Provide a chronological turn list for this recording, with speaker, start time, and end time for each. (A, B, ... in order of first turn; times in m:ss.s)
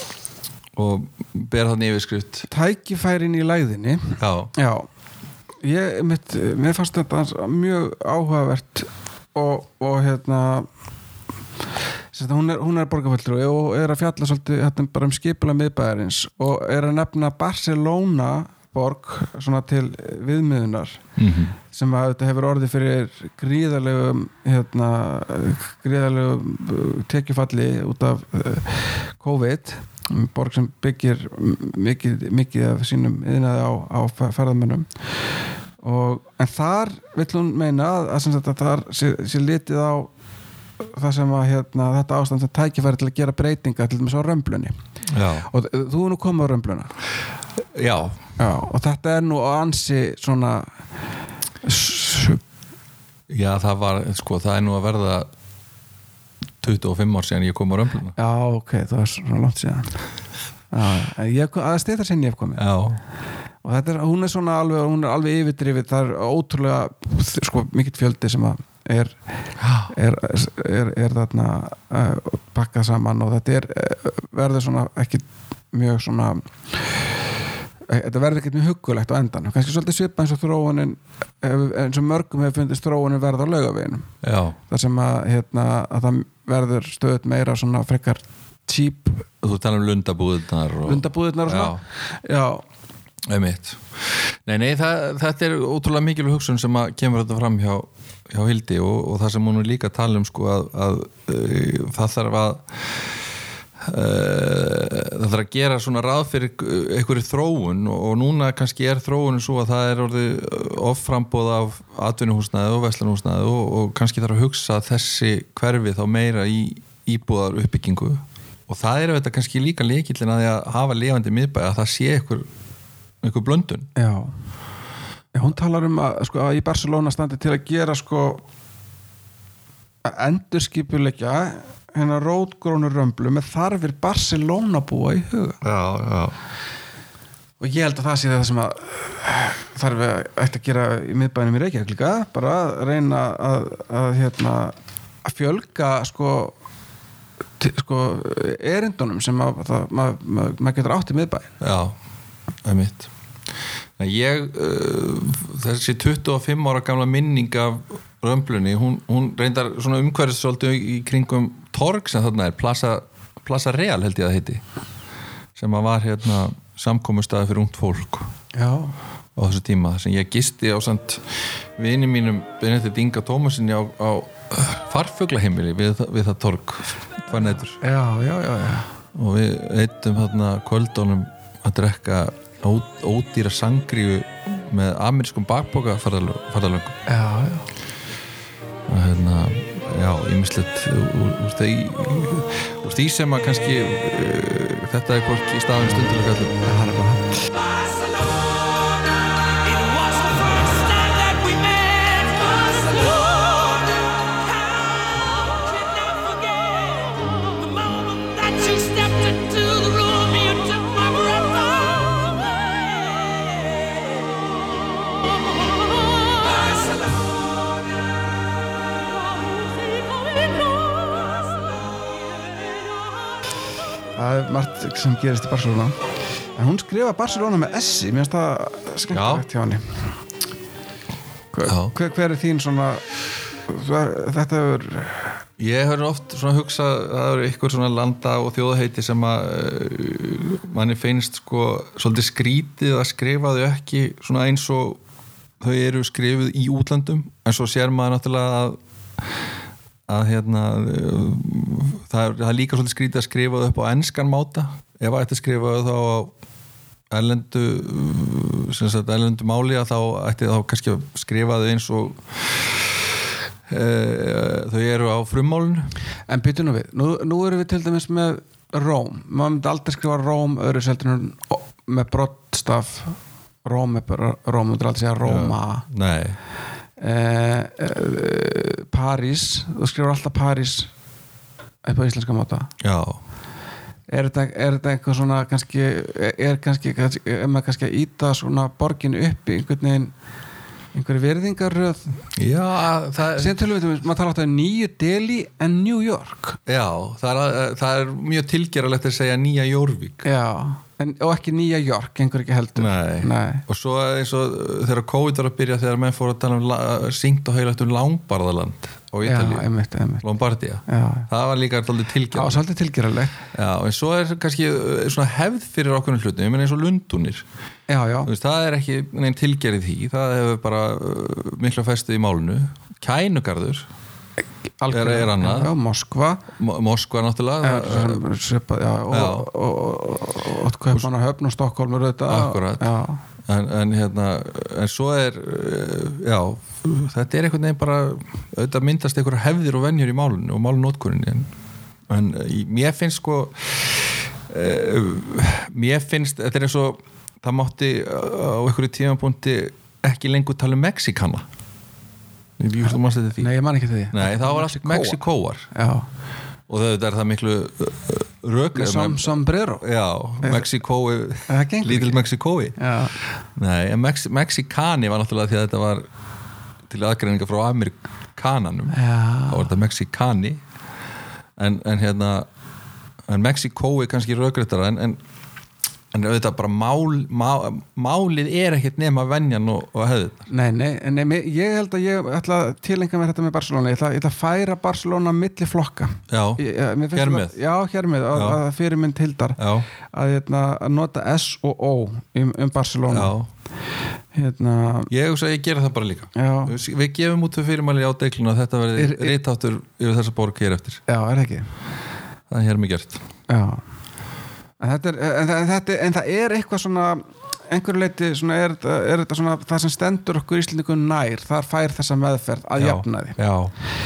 0:00.8-0:02.5 A
0:02.5-0:04.9 B
0:04.2-0:04.5 A
0:05.6-0:10.7 B
0:12.1-0:21.0 B
0:21.2-0:21.5 A
0:21.7-0:34.9 B
0:35.8-0:40.1 B
0:40.9-0:44.8 B
0:45.1-0:45.5 A
0:45.4-0:46.9 B
0:47.7-0:48.2 A
0:48.4-0:50.7 B
0:51.6-0:52.4 B
0:53.3-0:55.3 A
0:56.6-0:58.1 A
0:58.2-1:00.0 B
1:00.7-1:02.6 B
1:02.6-1:03.0 A
1:03.6-1:09.2 B
1:09.6-1:09.9 A
1:09.9-1:17.0 B
1:17.9-1:24.1 B
1:24.2-1:24.6 A
1:24.7-1:29.3 B
1:29.4-1:31.8 A
1:30.8-1:32.6 B
1:33.3-1:42.7 A
1:43.8-2:02.5 A
2:03.2-2:03.9 A
2:04.0-2:04.3 B
2:05.3-2:08.4 B
2:10.0-2:15.6 B
2:15.6-2:16.4 A
2:17.6-2:24.7 B
2:25.2-2:26.5 B
2:27.6-2:31.5 B
2:31.6-2:31.9 A
2:32.6-2:33.1 A
2:34.0-2:44.6 A
2:45.6-2:48.3 A
2:48.5-2:48.9 B
2:49.4-2:57.8 A
2:57.8-2:58.9 B
2:59.1-3:07.0 A
3:07.1-3:07.7 B
3:08.9-3:16.6 A
3:16.6-3:17.4 B
3:19.6-3:34.2 C
3:36.2-3:37.1 C
3:44.2-3:46.0 B
3:46.6-3:50.0 B
3:49.1-3:49.4 A
3:51.5-3:53.0 B
3:51.6-3:51.9 A
3:53.7-3:55.4 B
3:55.6-4:05.0 A
4:05.6-4:08.8 A
4:10.1-4:16.3 A
4:17.1-4:23.0 A
4:23.7-4:25.9 A
4:26.3-4:35.8 B
4:35.2-4:36.4 A
4:37.0-4:40.9 B
4:41.8-4:42.7 B
4:42.8-4:43.2 A
4:44.1-4:50.1 B
4:50.9-4:52.0 B
4:52.4-4:53.6 A
4:53.3-4:56.6 B
4:56.6-5:00.2 A
5:00.2-5:03.6 B
5:02.8-5:09.7 A
5:09.2-5:10.2 B
5:10.2-5:12.6 A
5:10.9-5:11.3 B
5:12.3-5:13.4 B
5:13.5-5:17.4 A
5:17.9-5:18.3 B
5:18.2-5:23.9 A
5:24.8-5:26.4 B
5:24.9-5:25.7 A
5:26.6-5:28.2 A
5:27.6-5:33.2 B
5:29.1-5:29.5 A
5:32.3-5:32.9 A
5:33.4-5:41.5 A
5:42.1-5:51.4 A
5:52.6-5:53.5 A
5:53.4-5:55.2 B
5:54.1-5:55.7 A
5:55.7-5:56.0 B
5:56.7-6:02.8 A
5:58.7-5:59.8 B
6:00.4-6:00.7 B
6:01.5-6:02.2 B
6:02.8-6:03.1 B
6:03.6-6:06.0 A
6:06.9-6:09.0 A
6:08.9-6:09.7 B
6:09.5-6:10.6 A
6:11.6-6:12.5 A
6:13.3-6:15.2 A
6:16.1-6:20.5 A
6:20.5-6:29.6 B
6:26.3-6:26.6 A
6:27.1-6:27.6 A
6:28.3-6:28.6 A
6:29.6-6:29.9 A
6:30.1-6:33.3 B
6:33.1-6:33.5 A
6:34.3-6:35.1 B
6:35.1-6:41.0 A
6:36.3-6:36.8 B
6:38.9-6:39.3 B
6:41.1-6:41.7 B
6:42.5-6:43.2 A
6:43.5-6:43.8 B
6:44.8-6:53.4 B
6:52.8-6:53.7 A